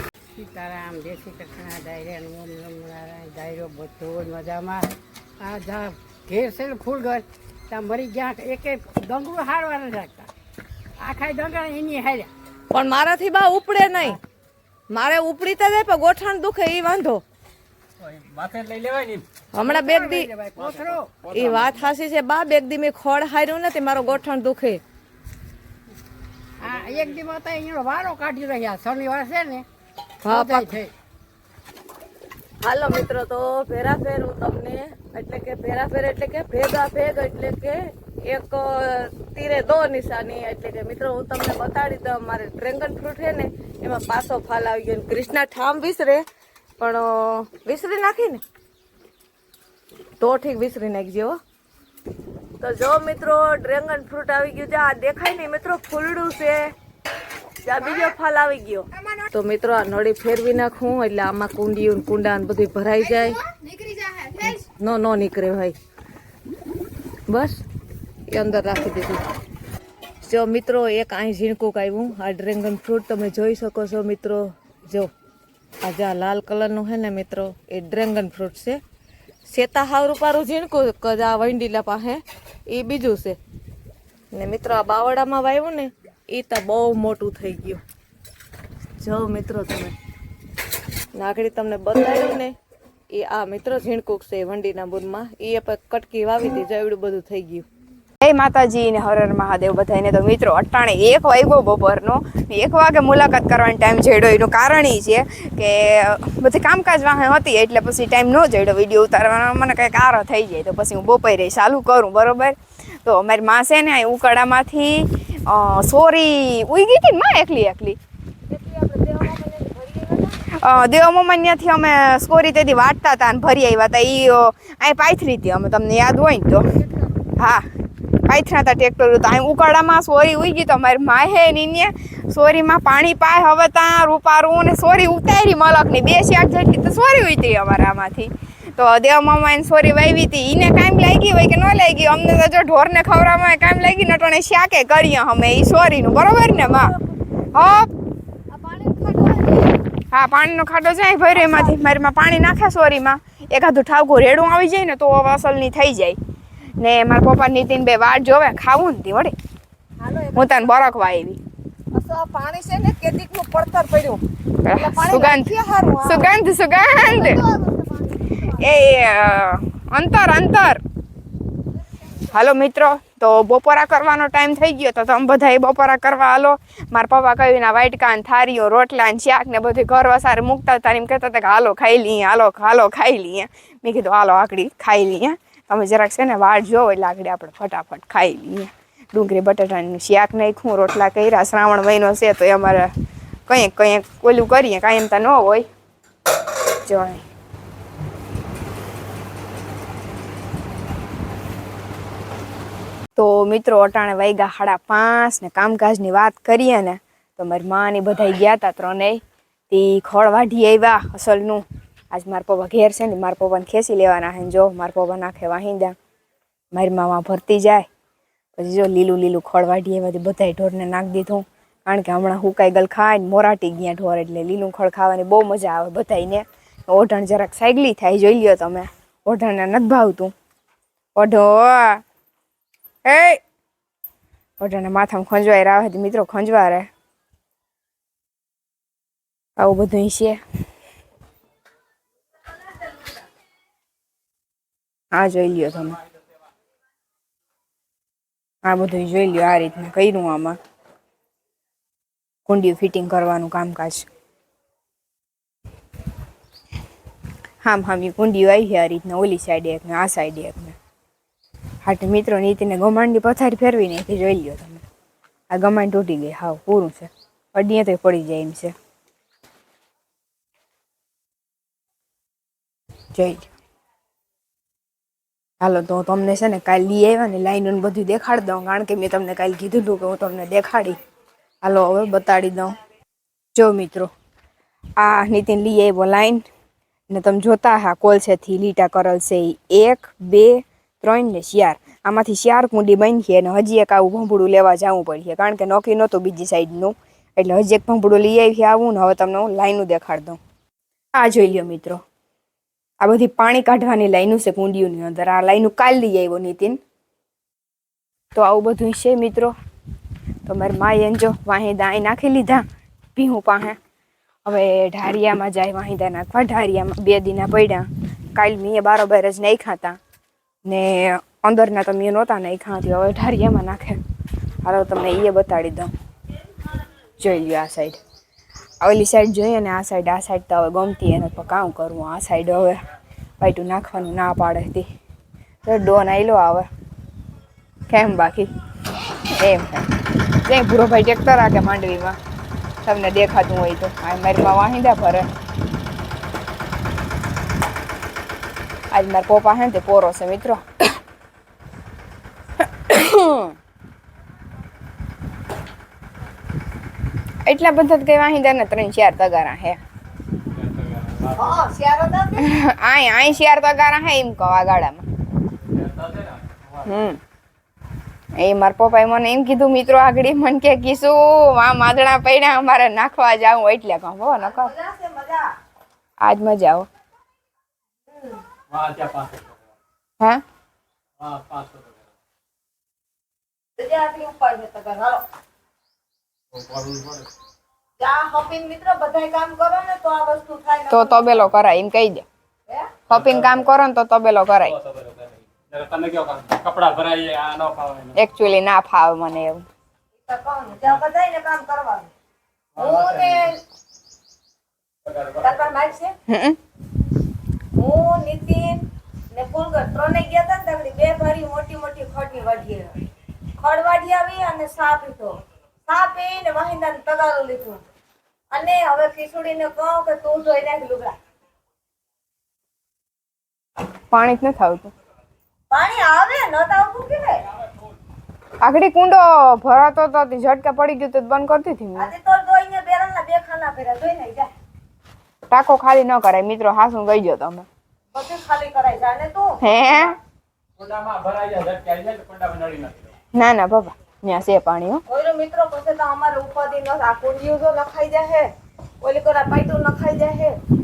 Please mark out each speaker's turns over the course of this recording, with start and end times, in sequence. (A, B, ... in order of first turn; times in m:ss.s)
0:00.4-0:04.9 A
0:05.4-0:10.3 A
0:11.0-0:12.3 A
0:12.7-0:14.2 B
0:14.9-0:17.2 B
0:18.0-0:19.2 C
0:19.5-0:20.3 B
0:19.6-0:21.4 A
0:20.6-0:20.9 C
0:21.3-0:24.8 B
0:26.6-0:29.7 A
0:30.2-0:30.8 B
0:30.3-0:30.9 A
0:32.6-0:46.2 B
0:46.8-0:48.4 B
0:50.2-0:51.4 B
0:52.6-0:56.7 B
0:57.6-1:03.4 B
1:03.2-1:04.6 D
1:04.4-1:05.8 B
1:07.3-1:07.6 B
1:08.3-1:09.3 B
1:10.2-1:15.1 B
1:15.8-1:18.8 B
1:19.5-1:23.4 B
1:24.3-1:27.8 B
1:29.0-1:30.0 B
1:31.1-1:32.6 B
1:33.1-1:37.6 B
1:38.2-1:58.0 D
1:58.5-2:00.5 B
2:00.6-2:06.6 D
2:07.4-2:07.7 D
2:08.3-2:26.9 D
2:26.4-2:27.0 B
2:27.5-2:27.9 D
2:28.5-2:29.7 B
2:30.1-2:36.2 D
2:31.3-2:31.8 B
2:36.8-2:39.4 D
2:40.0-2:40.7 B
2:40.4-2:41.4 D
2:41.9-2:46.4 B
2:44.6-2:47.4 D
2:46.9-2:48.6 B
2:48.5-2:50.8 D
2:52.3-3:12.9 D
3:13.5-3:15.7 D
3:16.8-3:17.2 D
3:23.2-3:36.0 D
3:36.7-3:37.9 D
3:38.6-3:50.3 D
3:51.2-3:52.0 D
3:53.0-3:53.4 D
3:54.6-3:56.9 D
3:59.6-4:00.4 D
4:05.1-4:06.0 D
4:08.6-4:10.6 D
4:12.5-4:14.1 D
4:17.6-4:20.8 D
4:21.8-4:24.8 D
4:25.5-4:28.7 D
4:33.1-4:33.5 D
4:35.6-4:41.0 D
4:41.6-4:42.8 D
4:43.6-4:44.1 D
4:45.0-4:46.5 D
4:47.1-5:00.4 D
5:01.2-5:02.0 D
5:03.0-5:06.8 D
5:08.3-5:09.5 D
5:10.4-5:12.6 D
5:13.2-5:13.8 D
5:14.4-5:20.0 D
5:20.6-5:24.0 D
5:24.6-5:25.9 D
5:27.2-5:28.0 D
5:28.8-5:32.8 D
5:33.4-5:34.9 D
5:35.6-5:36.7 D
5:37.9-5:38.5 D
5:39.4-5:39.9 D
5:40.5-5:42.2 D
5:42.8-5:45.3 D
5:48.9-5:50.8 D
5:52.6-5:53.6 D
5:57.5-5:59.8 D
6:00.5-6:01.6 C
6:01.4-6:02.5 B
6:02.4-6:05.1 D
6:05.7-6:06.9 C
6:06.8-6:07.2 D
6:08.4-6:14.7 D
6:14.3-6:15.5 B
6:16.2-6:16.9 D
6:18.1-6:18.4 B
6:18.7-6:19.6 C
6:21.2-6:22.0 C
6:23.8-6:25.2 B
6:26.5-6:27.3 C
6:28.0-6:31.5 B
6:30.9-6:32.2 D
6:33.1-6:33.7 C
6:33.1-6:34.8 D
6:34.6-6:38.2 C
6:38.2-6:39.6 D
6:40.2-6:42.1 B
6:42.8-6:43.5 C
6:42.8-6:43.6 B
6:45.1-6:45.8 C
6:45.4-6:46.2 B
6:46.3-6:46.6 D
6:47.8-6:53.0 B
6:53.6-6:57.8 B
6:58.5-7:01.2 B
7:04.1-7:04.9 D
7:05.7-7:07.5 B
7:08.6-7:12.1 D
7:12.0-7:14.5 B
7:15.5-7:17.7 D
7:18.1-7:20.1 B
7:19.6-7:20.2 D
7:20.8-7:23.1 C
7:23.3-7:25.0 D
7:25.1-7:28.5 B
7:29.0-7:30.6 B